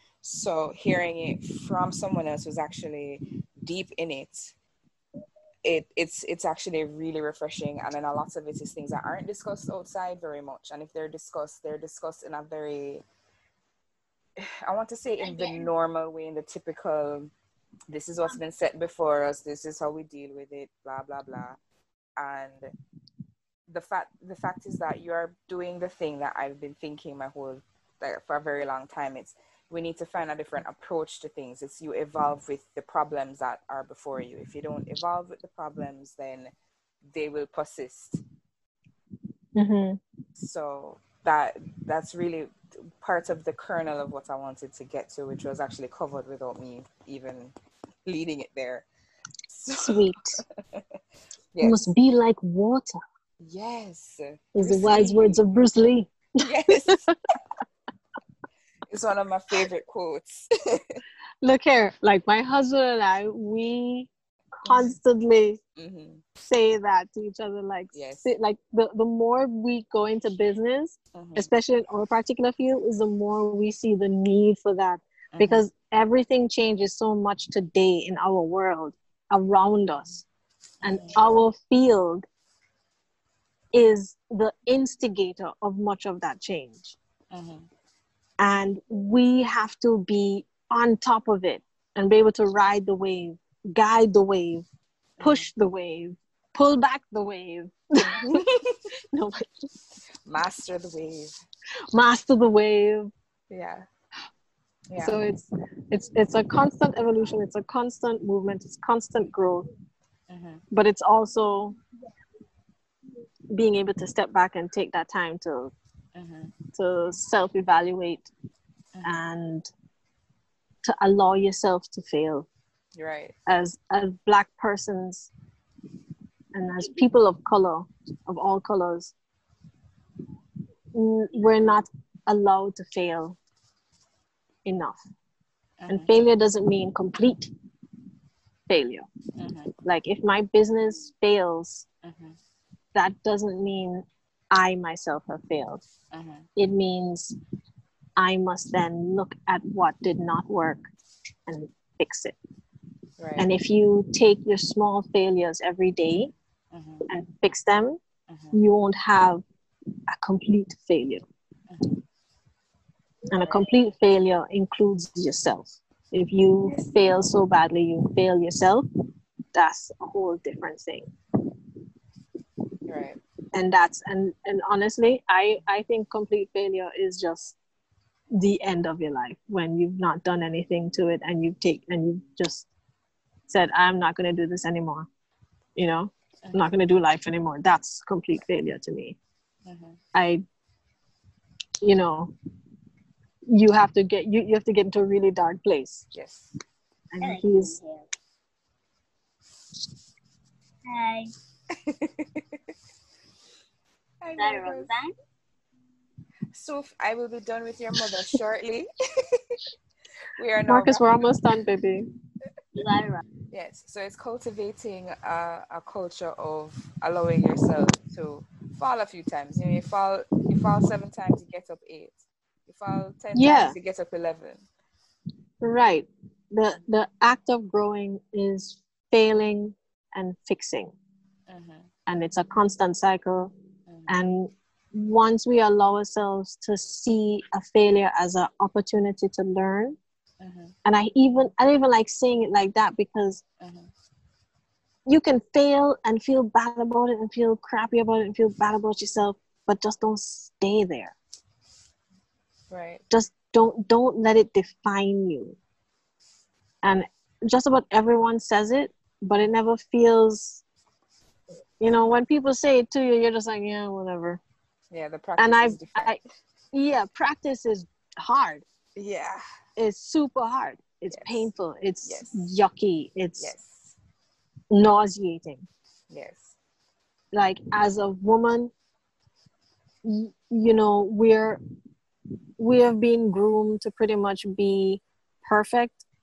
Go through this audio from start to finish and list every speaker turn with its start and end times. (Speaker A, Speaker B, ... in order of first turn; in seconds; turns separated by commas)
Speaker A: 0.2-4.5, Speaker A: 5.6-13.0, Speaker A: 14.4-17.3, Speaker A: 17.9-21.6, Speaker A: 22.2-22.7, Speaker A: 23.7-36.5, Speaker A: 37.0-38.2, Speaker B: 39.6-40.0, Speaker A: 40.4-47.5, Speaker A: 48.0-48.9, Speaker A: 49.5-51.0, Speaker B: 49.8-50.4, Speaker A: 51.5-51.9, Speaker B: 51.6-52.9, Speaker A: 53.4-55.4, Speaker B: 54.5-56.1, Speaker A: 56.4-57.0, Speaker B: 56.7-57.1, Speaker A: 58.9-61.0, Speaker B: 61.4-64.1, Speaker B: 64.6-65.6, Speaker A: 64.7-65.0, Speaker A: 65.8-66.2, Speaker B: 66.4-80.2, Speaker A: 67.9-68.3, Speaker A: 71.2-71.5, Speaker A: 75.3-75.7, Speaker A: 80.8-81.2, Speaker B: 80.8-82.3, Speaker B: 83.7-87.0, Speaker A: 87.3-87.7, Speaker B: 88.4-94.7, Speaker A: 95.2-95.5, Speaker B: 95.2-98.5, Speaker A: 98.0-98.8, Speaker B: 99.0-99.5, Speaker A: 100.2-101.4, Speaker B: 101.9-103.1, Speaker A: 103.5-103.9, Speaker A: 104.9-105.2, Speaker B: 105.0-109.7, Speaker A: 110.3-110.6, Speaker B: 110.7-111.8, Speaker B: 113.5-115.7, Speaker A: 116.1-116.5, Speaker B: 116.8-118.3, Speaker B: 119.0-119.7, Speaker B: 120.8-122.5, Speaker A: 123.0-123.3, Speaker B: 123.5-125.3, Speaker B: 126.5-129.1, Speaker B: 130.9-133.4, Speaker B: 134.7-135.0, Speaker A: 135.8-136.1, Speaker B: 135.9-137.5, Speaker B: 138.7-139.1, Speaker A: 139.3-139.7, Speaker B: 139.8-141.9, Speaker A: 142.0-142.4, Speaker B: 142.9-145.8, Speaker A: 146.1-146.5, Speaker B: 146.6-147.4, Speaker B: 148.2-150.9, Speaker B: 151.5-152.3, Speaker A: 153.2-153.5, Speaker B: 153.4-156.3, Speaker A: 156.7-157.1, Speaker B: 157.1-158.0, Speaker A: 158.3-158.6, Speaker B: 158.5-159.4, Speaker B: 160.1-161.2, Speaker A: 161.7-162.0, Speaker B: 163.3-168.9, Speaker A: 163.4-163.7, Speaker B: 169.5-171.1, Speaker A: 172.9-173.2, Speaker B: 173.5-177.6, Speaker B: 178.3-182.7, Speaker B: 183.5-185.1, Speaker B: 185.8-189.2, Speaker A: 186.5-186.7, Speaker A: 189.7-190.0, Speaker B: 190.1-190.4, Speaker B: 191.8-192.3, Speaker B: 193.5-196.1, Speaker A: 196.1-196.5, Speaker B: 197.1-197.8, Speaker C: 197.2-198.0, Speaker C: 200.9-201.3, Speaker A: 201.7-202.6, Speaker A: 204.2-204.9, Speaker C: 204.4-205.1, Speaker A: 206.5-209.6, Speaker A: 210.3-211.3, Speaker B: 210.7-212.1, Speaker C: 212.8-213.2, Speaker A: 213.5-224.7, Speaker B: 223.3-223.8, Speaker B: 225.6-230.9, Speaker A: 231.5-231.9, Speaker B: 232.1-233.5, Speaker A: 233.9-234.2, Speaker B: 234.1-240.0, Speaker A: 240.4-240.8, Speaker B: 240.8-243.4, Speaker A: 243.6-243.9, Speaker B: 245.1-251.2, Speaker A: 252.7-253.0, Speaker B: 253.1-255.6, Speaker B: 256.8-260.6, Speaker B: 261.8-264.4, Speaker A: 264.9-266.2, Speaker B: 265.4-266.2, Speaker B: 266.7-268.6, Speaker A: 269.0-269.4, Speaker B: 269.8-273.5, Speaker A: 271.1-271.5, Speaker A: 272.1-272.5, Speaker A: 273.4-274.0, Speaker B: 274.7-275.7, Speaker A: 276.1-276.6, Speaker B: 277.3-278.7, Speaker B: 280.0-281.6, Speaker B: 282.6-286.1